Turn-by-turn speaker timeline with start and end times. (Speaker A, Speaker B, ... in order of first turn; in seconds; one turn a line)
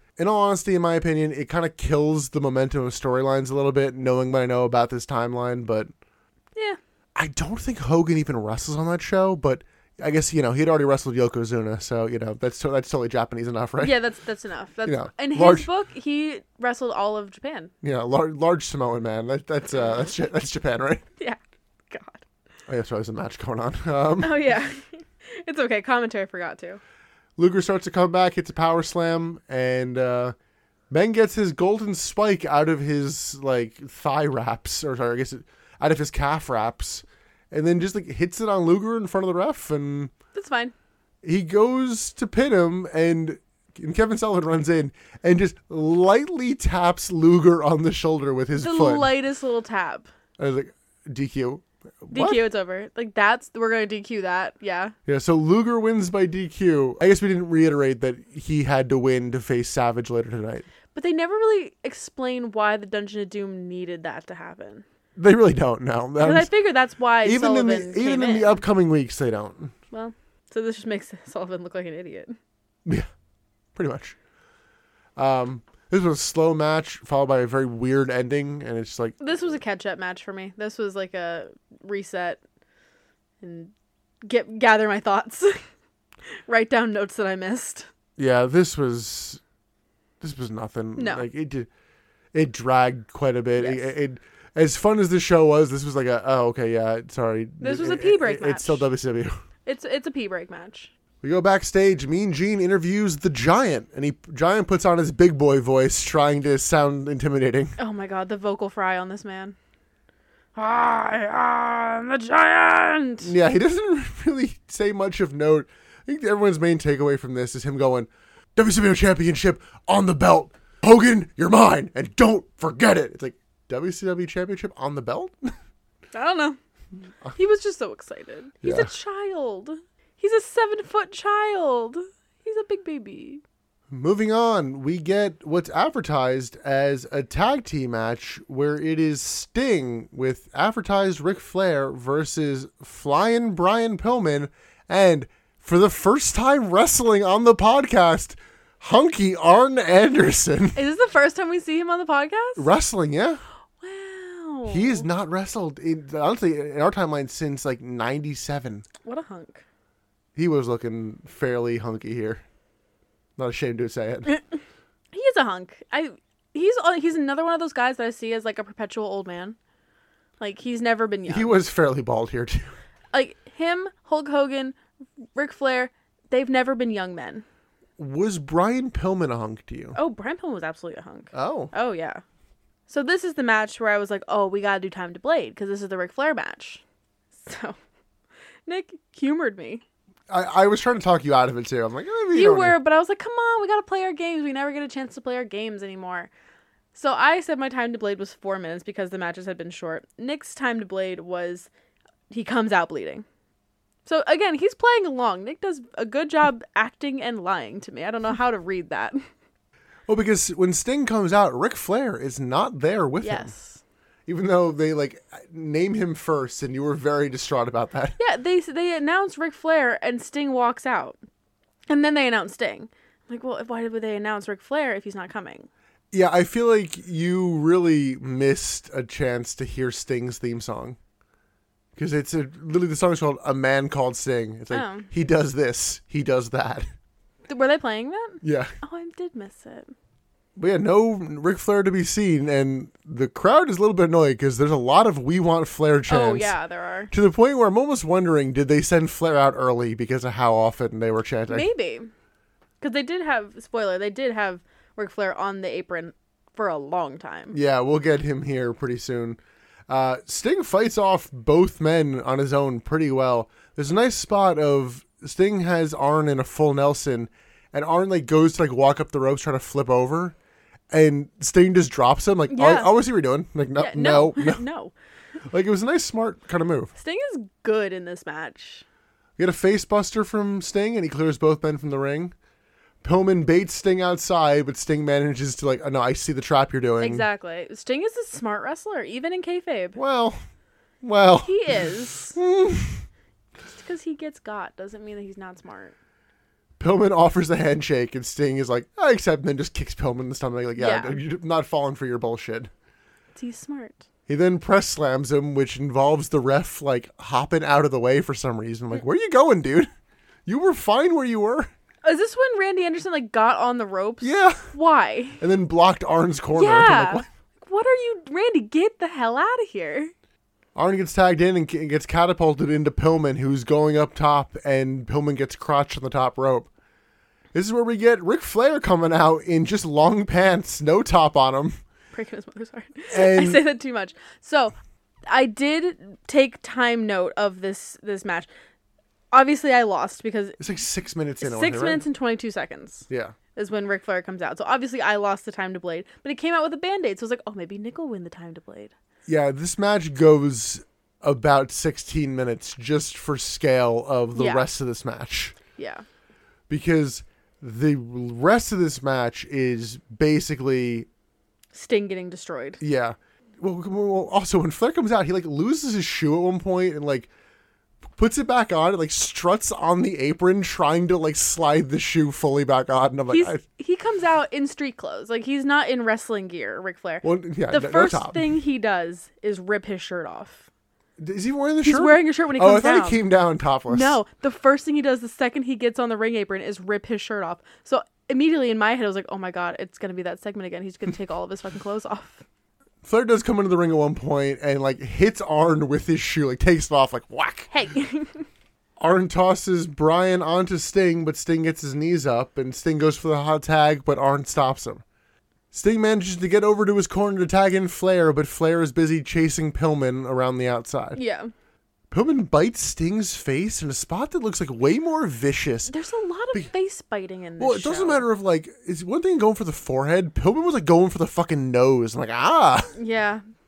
Speaker A: 0.2-5.9
Speaker A: 7.1-14.0
Speaker B: 13.8-17.7
Speaker A: 14.8-15.7
Speaker A: 17.8-21.0
Speaker B: 21.9-22.2
Speaker A: 22.7-24.4
Speaker B: 24.2-26.8
Speaker A: 27.4-30.3
Speaker A: 30.9-40.1
Speaker B: 40.3-40.7
Speaker A: 41.2-49.1
Speaker B: 48.6-50.1
Speaker A: 50.4-52.4
Speaker B: 52.1-54.9
Speaker A: 55.0-60.7
Speaker B: 60.9-64.8
Speaker A: 65.2-66.5
Speaker B: 66.2-68.6
Speaker A: 67.2-69.7
Speaker B: 69.9-72.3
Speaker A: 73.7-74.2
Speaker A: 75.2-79.6
Speaker B: 79.2-82.4
Speaker B: 83.4-83.7
Speaker B: 84.2-85.6
Speaker B: 86.5-87.9
Speaker A: 88.2-89.4
Speaker A: 90.2-91.7
Speaker B: 91.0-91.2
Speaker A: 92.3-99.3
Speaker B: 93.5-93.9
Speaker B: 97.6-98.8
Speaker B: 99.7-100.9
Speaker A: 101.2-107.8
Speaker B: 107.8-109.5
Speaker B: 110.5-113.3
Speaker A: 113.2-125.5
Speaker B: 126.1-126.6
Speaker B: 127.3-133.4
Speaker A: 128.6-128.9
Speaker A: 133.9-150.8
Speaker B: 150.8-152.7
Speaker A: 152.6-153.4
Speaker B: 153.8-155.1
Speaker A: 154.7-158.8
Speaker B: 159.0-159.6
Speaker A: 160.3-162.4
Speaker A: 163.4-164.3
Speaker B: 165.1-169.6
Speaker B: 170.4-171.5
Speaker A: 171.3-172.7
Speaker B: 173.1-174.8
Speaker B: 175.3-177.4
Speaker A: 178.0-180.0
Speaker B: 179.9-182.2
Speaker A: 181.3-181.7
Speaker B: 182.9-186.8
Speaker B: 187.3-187.8
Speaker B: 188.7-189.8
Speaker A: 190.3-192.8
Speaker B: 192.3-196.3
Speaker B: 196.9-201.7
Speaker B: 202.3-203.2
Speaker B: 204.0-209.2
Speaker A: 210.1-213.5
Speaker B: 213.2-213.8
Speaker A: 214.3-218.2
Speaker B: 218.2-221.2
Speaker B: 221.9-225.7
Speaker A: 226.1-231.0
Speaker A: 231.9-236.9
Speaker B: 234.7-235.1
Speaker B: 237.5-239.9
Speaker A: 238.4-238.7
Speaker A: 240.6-246.5
Speaker B: 246.1-247.1
Speaker A: 247.1-251.7
Speaker B: 251.5-252.1
Speaker B: 252.8-257.6
Speaker A: 257.5-270.4
Speaker A: 270.9-274.6
Speaker B: 272.5-272.9
Speaker B: 273.8-274.9
Speaker A: 275.5-276.9
Speaker B: 277.0-278.8
Speaker A: 279.4-282.3
Speaker A: 283.0-287.2
Speaker B: 287.0-290.0
Speaker A: 289.9-290.4
Speaker A: 291.0-291.5
Speaker B: 291.4-292.4
Speaker A: 292.4-293.0
Speaker B: 293.7-295.9
Speaker A: 296.8-302.7
Speaker B: 300.8-301.2
Speaker B: 303.3-304.1
Speaker A: 304.3-309.9
Speaker A: 310.4-311.7
Speaker B: 312.0-315.4
Speaker A: 314.2-314.7
Speaker A: 315.4-317.3
Speaker B: 316.5-320.1
Speaker A: 320.7-326.7
Speaker A: 327.5-331.8
Speaker B: 332.1-334.8
Speaker A: 333.1-333.6
Speaker B: 335.3-338.5
Speaker B: 339.3-340.6
Speaker A: 340.6-342.0
Speaker B: 341.4-348.9
Speaker A: 343.1-343.3
Speaker A: 349.3-355.6
Speaker B: 354.3-354.7
Speaker B: 355.8-356.0
Speaker A: 356.7-361.1
Speaker B: 361.7-362.8
Speaker A: 362.8-367.3
Speaker A: 368.1-373.6
Speaker B: 373.3-380.6
Speaker A: 377.2-378.4
Speaker A: 381.2-384.2
Speaker B: 381.8-383.2
Speaker B: 383.9-392.4
Speaker A: 393.0-397.7
Speaker B: 397.7-398.4
Speaker A: 399.0-405.0
Speaker A: 405.7-411.2
Speaker B: 411.1-411.5
Speaker A: 412.1-415.9
Speaker B: 415.9-418.2
Speaker A: 417.6-422.9
Speaker B: 422.9-423.4